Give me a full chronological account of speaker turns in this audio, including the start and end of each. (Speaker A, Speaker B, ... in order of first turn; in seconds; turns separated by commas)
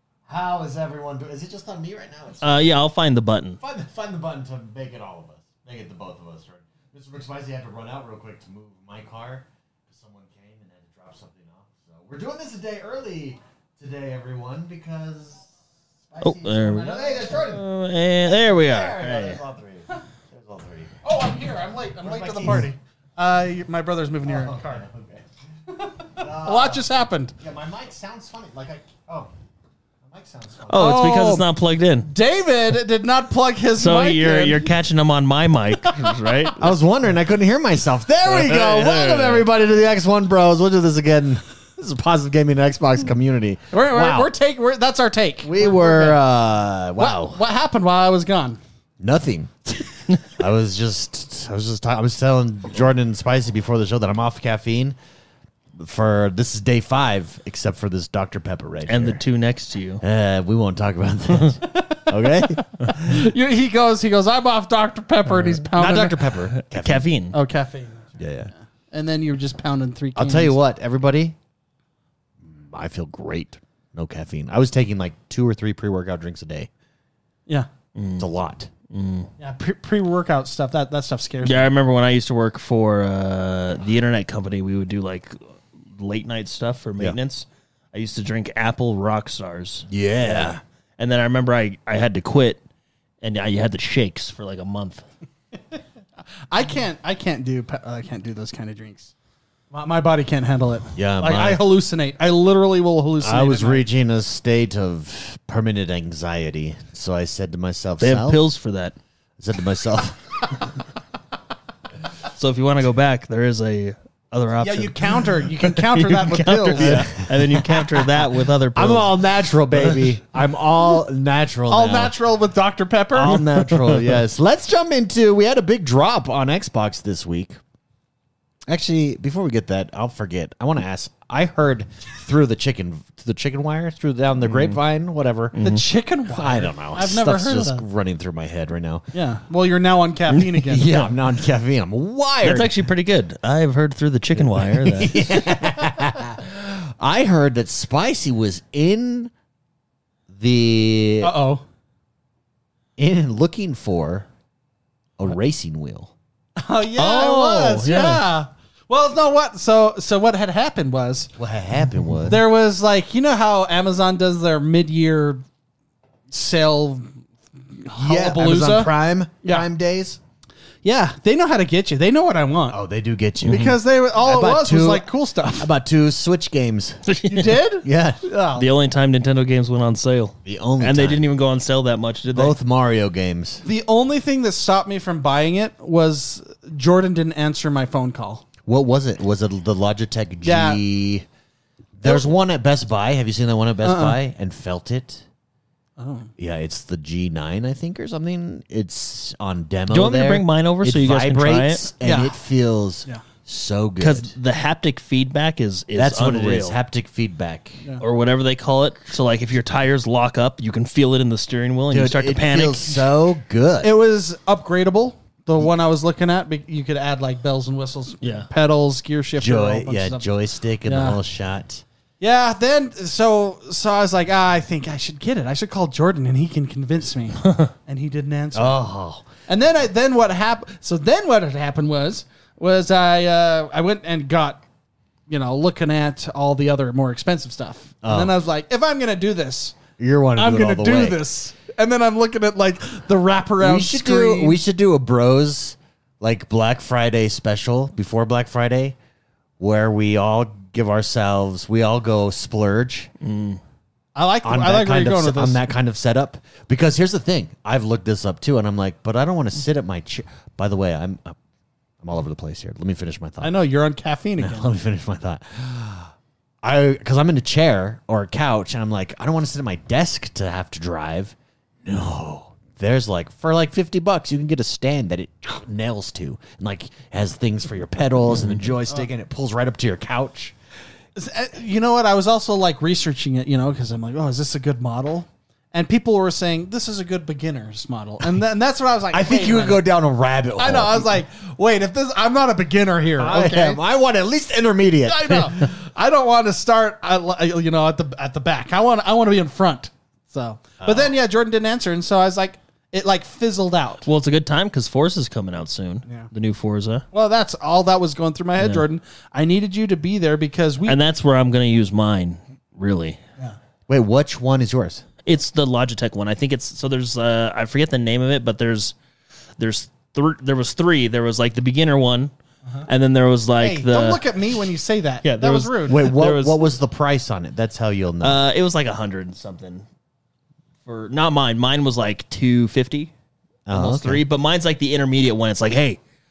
Speaker A: 0.2-2.7, Speaker B: 2.4-3.6, Speaker A: 3.6-15.5, Speaker A: 16.1-17.6, Speaker B: 16.2-19.4, Speaker A: 18.2-20.9, Speaker C: 21.0-24.8, Speaker A: 22.0-22.7, Speaker A: 24.2-25.2, Speaker A: 26.1-26.8, Speaker C: 26.1-27.3, Speaker A: 27.4-29.3, Speaker A: 30.0-31.0, Speaker B: 30.7-32.1, Speaker C: 30.7-31.4, Speaker C: 32.0-34.7, Speaker B: 33.8-36.6, Speaker C: 35.9-36.5, Speaker A: 36.5-44.3, Speaker B: 38.3-39.5, Speaker C: 43.7-46.2, Speaker A: 45.4-47.4, Speaker C: 47.0-48.6, Speaker A: 49.0-49.5, Speaker A: 50.2-55.0, Speaker A: 55.8-59.2, Speaker B: 58.9-60.0, Speaker A: 60.0-63.3, Speaker C: 61.7-62.0, Speaker C: 62.9-66.2, Speaker A: 65.8-67.0, Speaker B: 66.6-67.4, Speaker C: 67.3-70.6, Speaker A: 68.2-68.5, Speaker A: 70.2-71.3, Speaker A: 72.5-76.7, Speaker B: 77.9-78.2, Speaker A: 78.2-78.7, Speaker B: 78.9-79.3, Speaker C: 79.4-81.7, Speaker B: 81.4-85.4, Speaker B: 86.0-92.6, Speaker A: 89.9-90.6, Speaker B: 93.2-95.0, Speaker C: 96.5-99.1, Speaker C: 99.7-103.8, Speaker A: 100.9-101.7, Speaker A: 103.2-108.4, Speaker B: 108.0-109.0, Speaker A: 109.4-110.5, Speaker B: 112.3-119.2, Speaker C: 114.6-117.2, Speaker A: 116.8-122.1, Speaker B: 119.7-120.1, Speaker C: 121.7-123.4, Speaker A: 123.1-127.6, Speaker B: 123.3-124.2, Speaker A: 128.7-135.6, Speaker B: 135.5-135.8, Speaker C: 135.6-137.8, Speaker A: 136.3-139.0, Speaker C: 139.1-140.9, Speaker A: 140.7-142.7, Speaker B: 142.4-145.3, Speaker A: 144.5-149.3, Speaker A: 150.3-151.3, Speaker C: 151.2-151.6, Speaker A: 153.0-154.3, Speaker A: 155.2-156.1, Speaker C: 156.6-161.3, Speaker B: 157.0-158.2, Speaker A: 161.4-162.4, Speaker C: 162.3-165.4, Speaker C: 166.3-167.1, Speaker C: 167.7-168.9, Speaker A: 167.9-170.2, Speaker C: 170.8-172.8, Speaker A: 172.7-177.0, Speaker B: 173.4-173.8, Speaker C: 173.4-175.7, Speaker B: 177.1-177.6, Speaker C: 177.2-178.7, Speaker A: 177.8-178.2, Speaker B: 178.6-182.6, Speaker A: 180.4-181.2, Speaker A: 182.3-183.6, Speaker C: 183.6-188.4, Speaker A: 188.7-191.2, Speaker C: 190.4-190.8, Speaker A: 191.9-195.2, Speaker C: 193.8-194.2, Speaker C: 196.0-196.3, Speaker A: 196.4-204.3, Speaker B: 199.9-201.8, Speaker C: 202.0-202.4, Speaker B: 204.0-206.8, Speaker A: 205.9-207.8, Speaker B: 208.0-213.1, Speaker A: 211.9-213.9, Speaker C: 213.8-220.3, Speaker A: 219.4-221.8, Speaker C: 220.8-221.2, Speaker C: 222.2-228.8, Speaker A: 228.5-229.2, Speaker C: 229.5-234.6, Speaker C: 235.3-239.8, Speaker A: 238.0-238.3, Speaker A: 240.0-241.2, Speaker C: 240.3-244.6, Speaker A: 243.6-248.9, Speaker A: 249.6-253.1, Speaker B: 253.2-253.6, Speaker C: 254.1-255.6, Speaker A: 254.4-261.4, Speaker A: 262.0-263.5, Speaker C: 263.4-264.7, Speaker A: 264.4-266.1, Speaker A: 266.6-280.5, Speaker C: 281.1-289.8, Speaker A: 289.1-291.1, Speaker C: 290.6-293.8, Speaker A: 293.2-295.6, Speaker C: 295.0-304.1, Speaker A: 300.8-301.1, Speaker B: 304.0-307.0, Speaker C: 307.1-311.0, Speaker B: 308.6-308.8, Speaker B: 310.8-313.2, Speaker A: 313.9-315.0, Speaker B: 315.2-318.9, Speaker B: 319.6-322.3, Speaker B: 322.9-324.2, Speaker C: 323.6-326.0, Speaker B: 325.2-326.6, Speaker A: 325.8-328.4, Speaker B: 328.2-329.8, Speaker B: 330.9-333.1, Speaker A: 333.7-334.2, Speaker B: 333.7-336.0